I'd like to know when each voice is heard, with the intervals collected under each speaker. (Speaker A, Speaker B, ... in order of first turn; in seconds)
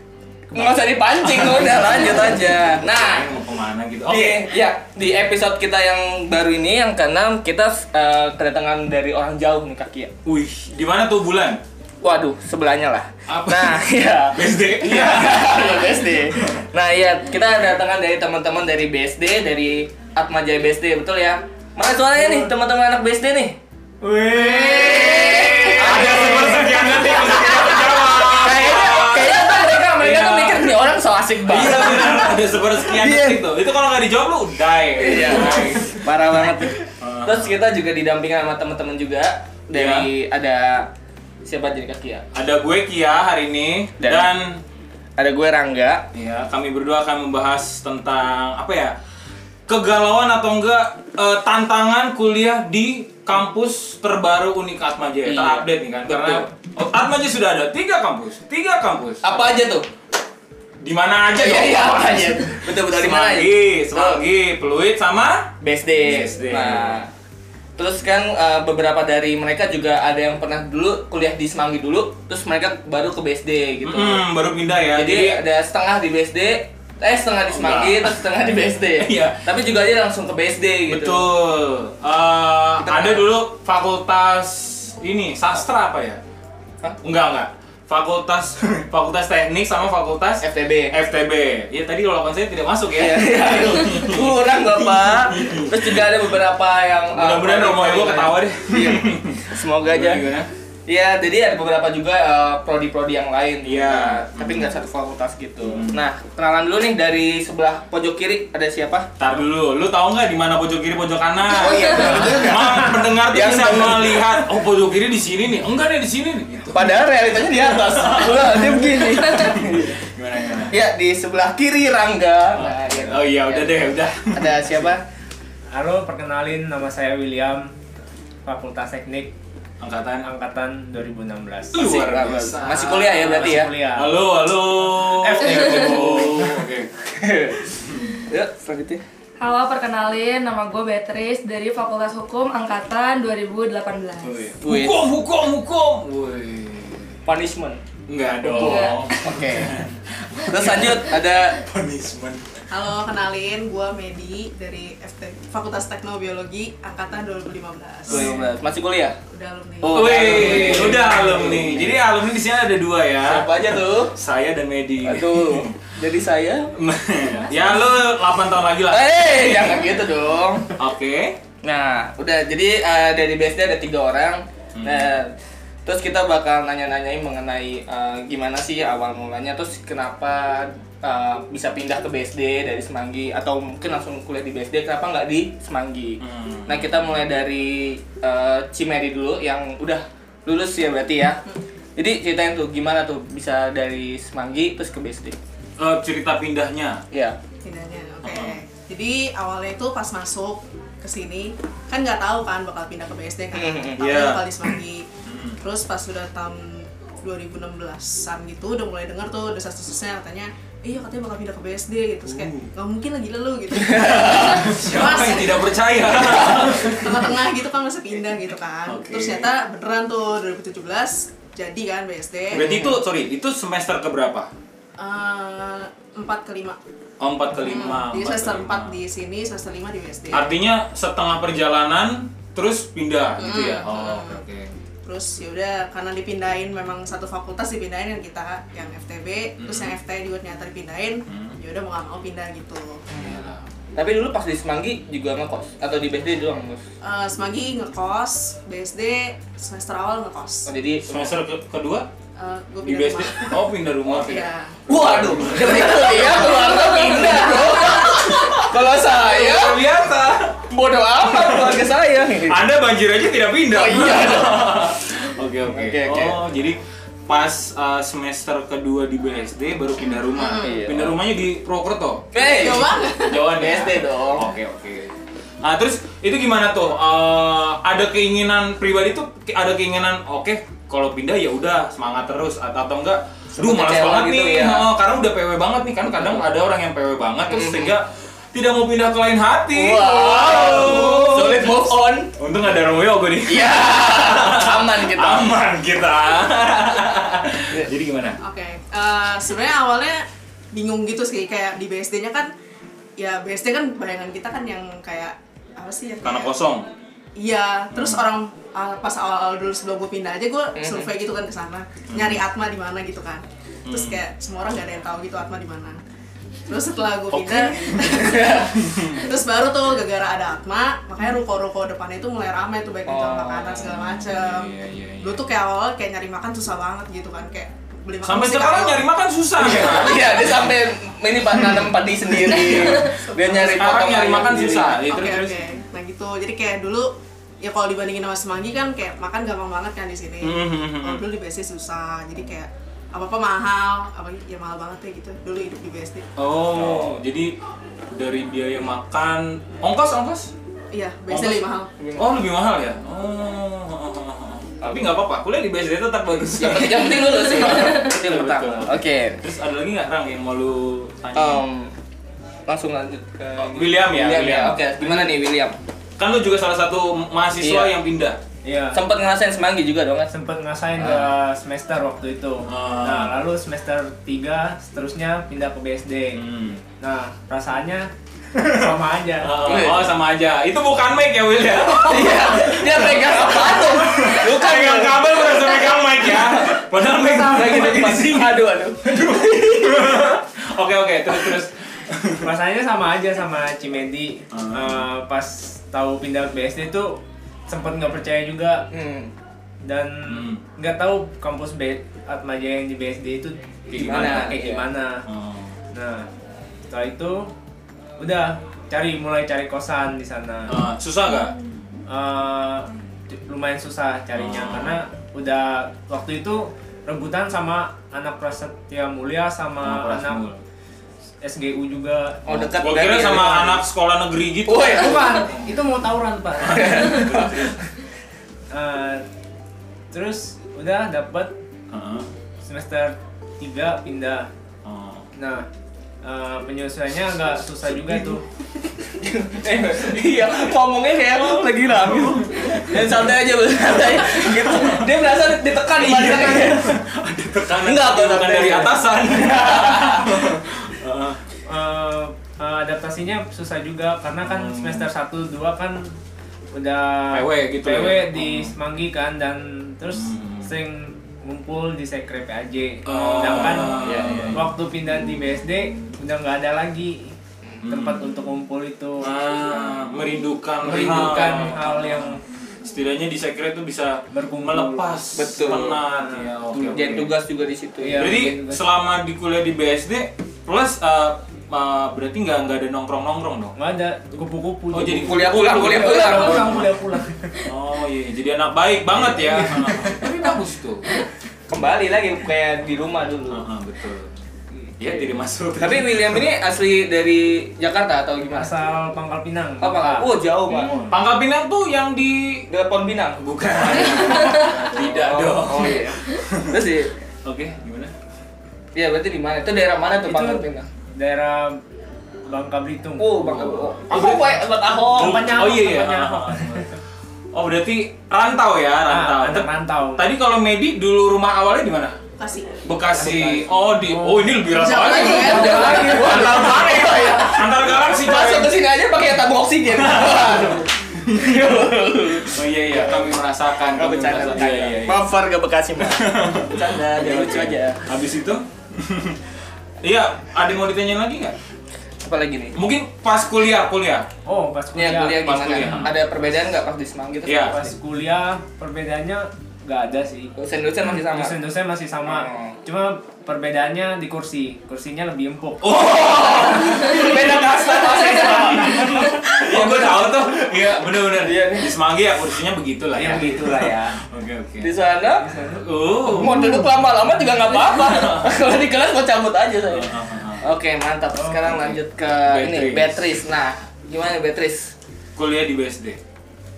Speaker A: 0.5-3.3, 4.1-10.1, 12.0-33.4, 35.0-40.9, 41.5-42.2, 44.0-44.3, 45.2-46.1, 55.2-56.5, 59.2-59.9, 61.3-64.2, 65.6-67.1, 67.8-74.2, 74.9-81.3, 82.8-83.2, 90.4-90.9, 92.9-100.2, 100.9-109.1, 111.5-114.5, 116.7-125.0, 131.8-133.7, 135.8-136.2, 137.0-139.0, 144.2-145.0, 147.2-147.8, 148.5-149.8, 150.5-151.6, 158.1-159.2, 159.8-162.0, 163.2-164.2, 165.0-166.8, 168.9-170.7, 171.6-175.3, 175.9-191.4, 192.0-195.4, 197.1-197.4, 203.5-204.0, 213.8-214.8, 216.2-216.7, 222.5-223.0, 243.1-243.4, 243.9-246.8, 250.7-251.4, 254.9-259.8, 260.7-262.6, 263.7-265.0, 265.7-266.4, 270.6-271.2, 272.3-274.4, 283.6-284.9, 287.5-287.9, 289.7-292.3, 293.5-295.6, 310.8-311.1, 317.4-318.8, 323.1-323.9, 329.6-335.0, 346.7-347.2, 352.0-352.3, 354.8-355.1, 356.5-359.4, 361.4-361.9, 362.7-365.8, 367.6-367.9, 368.9-370.3, 379.6-380.1, 382.0-390.2, 398.9-399.3, 403.9-404.9, 422.4-423.8, 424.7-425.5, 426.7-427.8, 439.0-446.8, 447.8-450.3, 463.6-464.7, 475.4-476.0, 476.7-478.3, 485.0-486.7, 491.7-493.7, 495.8-498.7, 499.8-501.1, 502.7-507.1, 508.9-510.9, 513.2-515.5, 525.0-533.4, 533.9-538.0, 542.2-542.8, 544.9-547.8, 550.5-551.6, 552.2-552.8, 555.9-560.6, 561.4-561.9, 564.8-565.5, 566.2-574.9
Speaker B: 0.6-4.5, 10.2-11.6, 13.3-16.7, 24.0-30.8, 31.4-37.5, 39.7-40.1, 42.3-44.6, 46.1-49.0, 49.7-59.5, 60.8-67.0, 73.8-75.4, 77.5-78.2, 78.9-79.5, 80.9-86.2, 87.0-96.3, 97.1-100.5, 103.7-104.8, 105.6-106.0, 109.2-120.7, 122.5-124.9, 129.8-130.3, 131.7-136.9, 137.8-138.1, 144.6-147.2, 148.1-152.6, 158.1-158.6, 159.9-165.8, 166.7-170.0, 170.8-171.4, 174.8-175.2, 186.2-187.2, 195.8-197.0, 198.2-198.6, 204.0-204.5, 205.2-205.6, 212.2-212.7, 214.2-217.4, 218.9-219.5, 222.5-224.5, 227.2-229.0, 230.3-234.7, 239.6-240.0, 241.3-241.6, 243.1-243.6, 251.0-252.1, 252.8-260.6, 261.2-261.9, 262.4-298.4, 306.2-306.9, 307.9-308.3, 312.1-312.4, 313.9-314.2, 317.4-319.3, 323.8-325.4, 328.2-330.7, 331.5-335.8, 340.4-341.2, 346.4-347.6, 348.1-350.5, 351.3-351.7, 352.2-361.6, 363.6-364.8, 366.2-368.4, 371.0-371.3, 372.7-373.3, 376.3-376.8, 378.6-392.5, 394.5-395.1, 400.3-400.6, 403.9-404.6, 405.2-405.7, 410.7-411.6, 414.4-415.0, 419.8-420.6, 422.5-425.6, 426.6-427.8, 431.9-432.3, 434.9-435.3, 437.9-438.4, 441.9-443.1, 444.0-445.1, 445.9-451.4, 454.4-455.1, 457.3-458.7, 460.1-460.7, 463.1-465.4, 467.8-468.5, 469.2-477.3, 478.2-483.8, 484.9-486.9, 487.6-491.1, 493.5-494.3, 495.0-496.4, 501.1-502.7, 503.4-506.9, 507.4-508.1, 513.4-514.6, 515.2-516.9, 517.5-522.2, 522.8-528.7, 529.9-531.9, 532.5-535.3, 536.0-539.4, 540.0-541.5, 542.8-544.3, 545.3-546.1, 547.4-547.8, 555.8-565.0, 565.8-566.7, 567.7-568.7, 569.9-570.6, 571.6-573.4, 575.4-576.2
Speaker C: 125.7-127.7, 128.4-129.3, 130.2-131.9, 133.2-134.2, 134.9-136.6, 368.6-369.0, 370.3-376.4, 377.0-379.8, 392.4-398.9, 399.8-405.2, 405.9-406.3, 406.9-407.5, 408.2-410.8, 412.1-420.5, 421.4-422.7, 424.9-427.5, 428.7-429.2, 430.1-431.6, 432.6-434.5, 435.4-435.7, 436.2-438.4, 451.7-456.2, 456.7-469.3, 470.8-472.4, 474.3-475.1, 476.1-476.5, 478.0-478.8, 483.8-487.7, 489.2-490.4, 498.5-501.2, 505.0-505.3, 510.3-511.8, 512.5-514.4, 515.1-516.9, 519.1-520.2, 523.2-524.7, 525.4-527.5, 544.4-546.1, 547.7-550.5, 551.1-556.0, 563.1-564.2, 565.3-565.9, 566.4-566.8, 571.3-571.6
Speaker D: 139.4-144.5, 148.6-149.1, 503.9-504.8
Speaker E: 152.7-158.3, 159.3-161.0, 197.6-205.1, 205.6-222.7, 225.0-226.8, 227.5-230.5, 233.4-234.4, 235.1-243.1, 247.0-250.7, 252.4-258.2, 270.3-270.9, 272.4-273.5, 298.4-302.5, 303.2-306.5, 307.4-316.0, 316.7-329.1, 332.8-346.3, 350.9-351.9, 522.4-522.8, 524.7-526.8